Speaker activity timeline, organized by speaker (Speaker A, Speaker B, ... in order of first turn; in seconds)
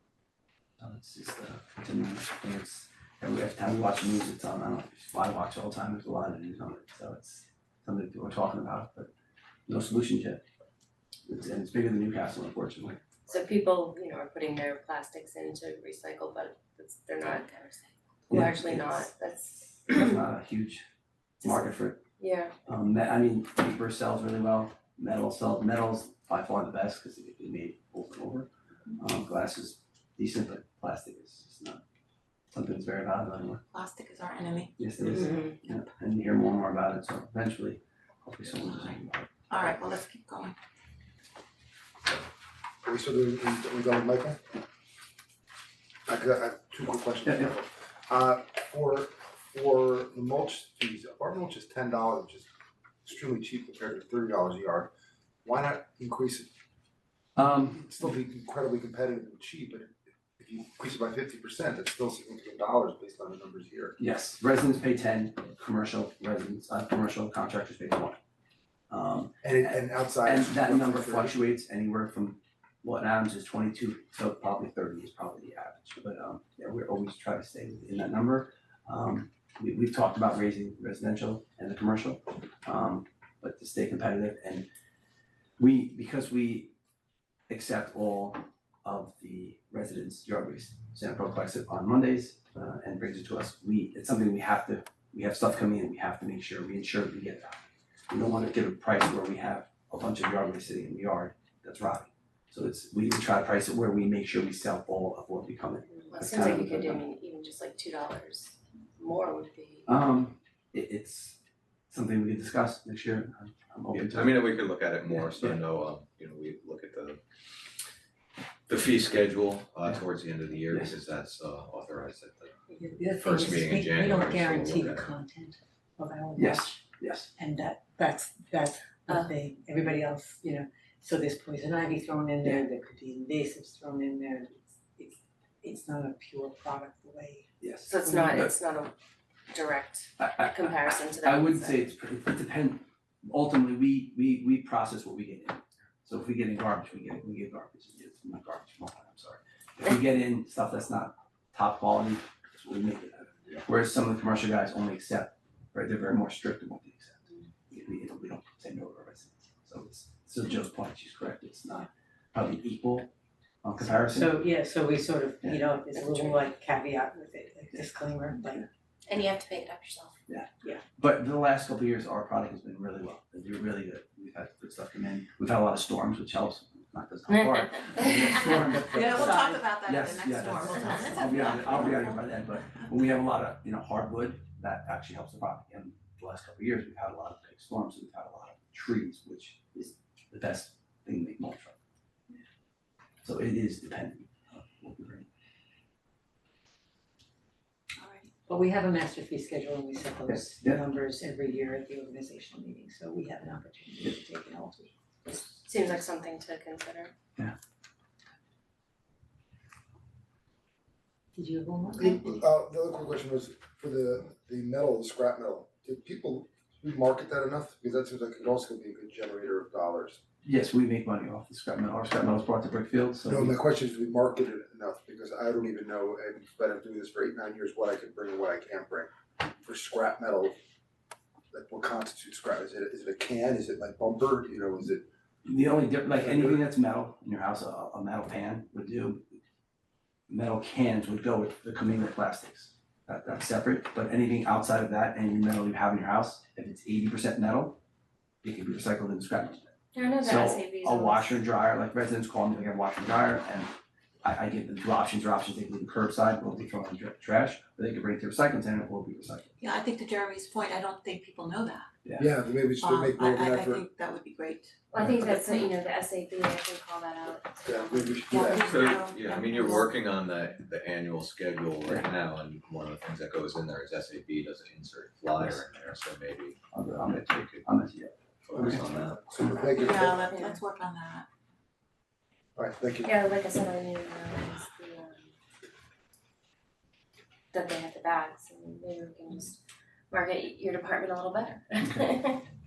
Speaker A: 0.8-9.1, 9.7-10.4, 11.3-13.0, 18.3-19.1, 19.9-20.8, 21.4-22.0, 22.7-31.8, 32.5-33.6, 34.8-39.3, 57.4-57.8, 64.0-68.2, 68.9-84.7, 85.6-86.7, 87.5-107.0, 109.9-111.4, 111.9-114.5, 120.7-121.0, 126.4-127.3, 137.6-138.6, 140.2-163.1, 163.6-164.4, 170.3-191.8, 193.2-195.3, 200.3-200.8, 220.4-223.5, 235.4-239.4, 240.3-247.8, 248.4-259.5, 276.7-278.8
Speaker B: 13.3-17.8, 18.3-20.2, 22.2-22.6, 35.1-35.5, 106.0-109.9, 137.9-138.9, 139.5-141.9, 165.9-166.5, 169.1-170.2, 205.3-207.1, 249.9-251.4, 264.9-268.4, 283.1-285.3, 287.5-289.6, 290.1-292.4
Speaker C: 33.7-34.8, 39.5-40.6, 178.5-182.2, 198.0-198.3, 259.6-261.9, 262.8-264.7, 268.3-269.9, 279.7-281.3
Speaker D: 42.8-44.4, 46.1-52.5, 53.0-54.9, 55.5-56.5, 57.5-64.0, 69.4-71.3, 212.0-220.2, 223.3-230.6, 231.5-235.0, 236.1-236.6, 262.2-263.9, 267.6-268.8, 278.6-280.3, 282.6-283.1
Speaker E: 113.9-117.2, 118.7-122.5, 123.1-125.1, 268.7-277.6, 278.5-279.2
Speaker F: 122.7-126.8, 127.4-137.5, 164.0-168.7, 178.9-179.6, 198.5-204.9, 211.3-212.4